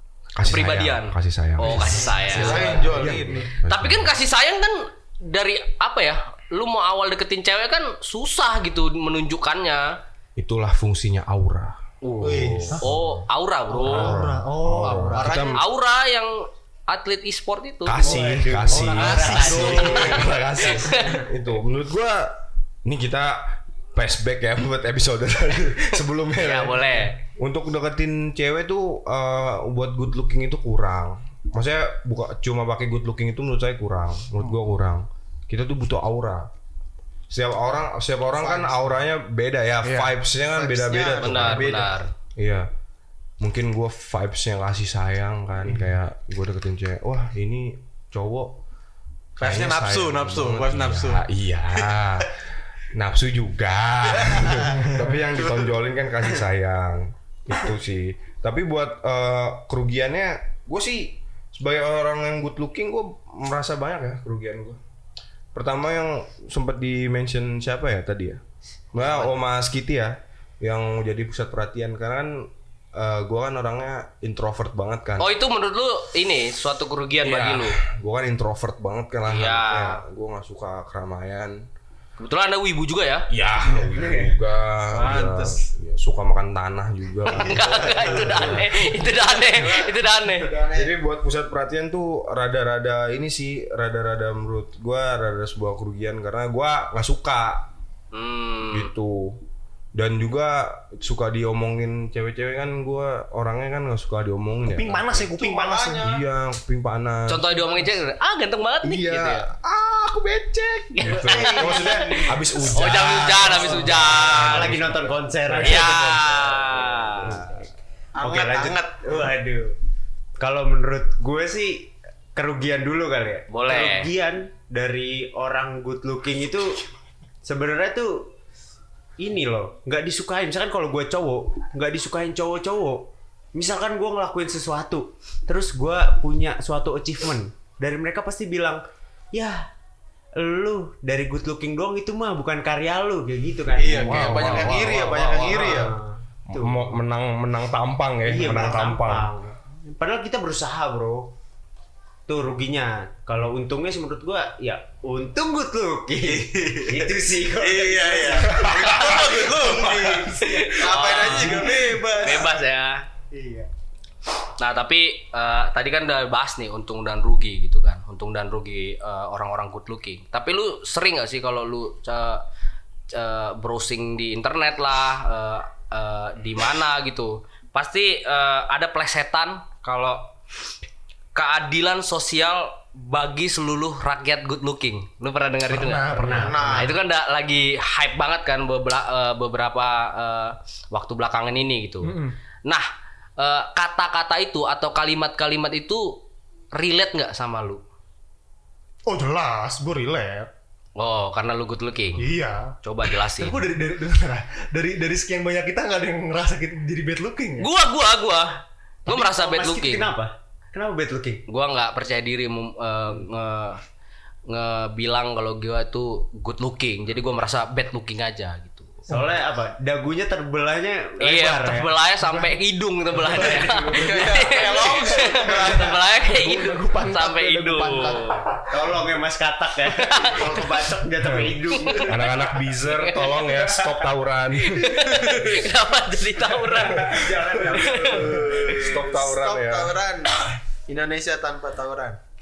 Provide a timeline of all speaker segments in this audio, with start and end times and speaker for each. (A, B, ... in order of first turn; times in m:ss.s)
0:00.4-0:04.2 A
0:00.4-0:02.9 B
0:02.3-0:03.5 C
0:03.0-0:03.5 D
0:03.7-0:10.0 B
0:10.4-0:13.3 A
0:12.1-0:14.2 B
0:12.3-0:12.7 C
0:13.7-0:15.4 D
0:13.8-0:15.6 A
0:15.2-0:15.6 C
0:15.5-0:18.0 B
0:17.8-0:36.5 A
0:18.0-0:20.1 E
0:18.7-0:20.3 D
0:19.0-0:20.2 B
0:19.4-0:20.2 C
0:26.4-0:27.2 B
0:37.3-0:42.7 A
0:38.4-0:38.7 D
0:39.8-0:41.8 C
0:41.2-0:42.1 B
0:43.4-0:48.6 A
0:49.4-0:51.3 C
0:49.4-0:52.4 A
0:52.9-1:04.8 A
0:54.1-0:55.7 C
1:05.5-1:08.4 A
1:08.9-1:15.3 A
1:09.1-1:09.3 B
1:15.2-1:17.8 B
1:17.2-1:21.6 A
1:19.3-1:20.0 B
1:22.2-1:23.3 B
1:23.3-1:28.9 A
1:23.8-1:24.3 E
1:24.9-1:25.6 C
1:27.3-1:30.5 B
1:28.0-1:30.9 C
1:30.7-1:37.7 A
1:38.1-1:38.9 B
1:38.7-1:39.4 A
1:40.0-1:45.3 A
1:44.6-1:46.1 D
1:45.4-1:46.2 C
1:46.0-1:47.5 A
1:47.3-1:49.5 B
1:48.8-1:56.4 A
1:51.0-1:54.8 B
1:51.1-1:52.2 E
1:54.3-1:57.6 E
1:55.6-1:57.4 B
1:58.2-1:59.2 C
1:58.2-1:59.8 E
2:00.4-2:06.8 E
2:03.5-2:04.1 B
2:07.4-2:08.3 E
2:09.2-2:18.8 E
2:19.3-2:19.6 E
2:20.4-2:26.9 E
2:23.8-2:26.0 C
2:24.1-2:25.9 B
2:24.2-2:24.6 A
2:26.5-2:29.3 A
2:28.2-2:31.3 E
2:32.3-2:42.5 E
2:36.3-2:42.5 C
2:38.6-2:40.4 A
2:40.4-2:43.0 B
2:43.3-2:43.7 E
2:44.6-2:52.4 B
2:53.1-3:00.3 B
3:01.4-3:12.1 B
3:05.7-3:06.9 D
3:06.1-3:06.9 E
3:06.3-3:07.0 C
3:12.0-3:12.4 D
3:13.4-3:16.2 B
3:16.7-3:17.8 B
3:19.1-3:20.5 D
3:21.0-3:23.7 B
3:22.2-3:22.7 D
3:23.4-3:27.7 D
3:27.6-3:30.1 B
3:29.1-3:31.4 E
3:31.5-3:33.8 B
3:34.5-3:39.0 B
3:39.1-3:41.9 E
3:41.2-3:48.5 B
3:42.2-3:42.6 D
3:43.2-3:48.4 D
3:43.3-3:44.2 E
3:43.7-3:46.0 C
3:48.7-3:52.2 E
3:50.0-3:50.6 B
3:51.2-3:51.6 A
3:51.8-3:52.3 B
3:52.1-3:55.6 A
3:52.9-3:53.2 B
3:54.6-3:58.4 B
3:56.8-3:58.8 E
3:58.1-4:02.2 C
3:58.6-3:59.9 A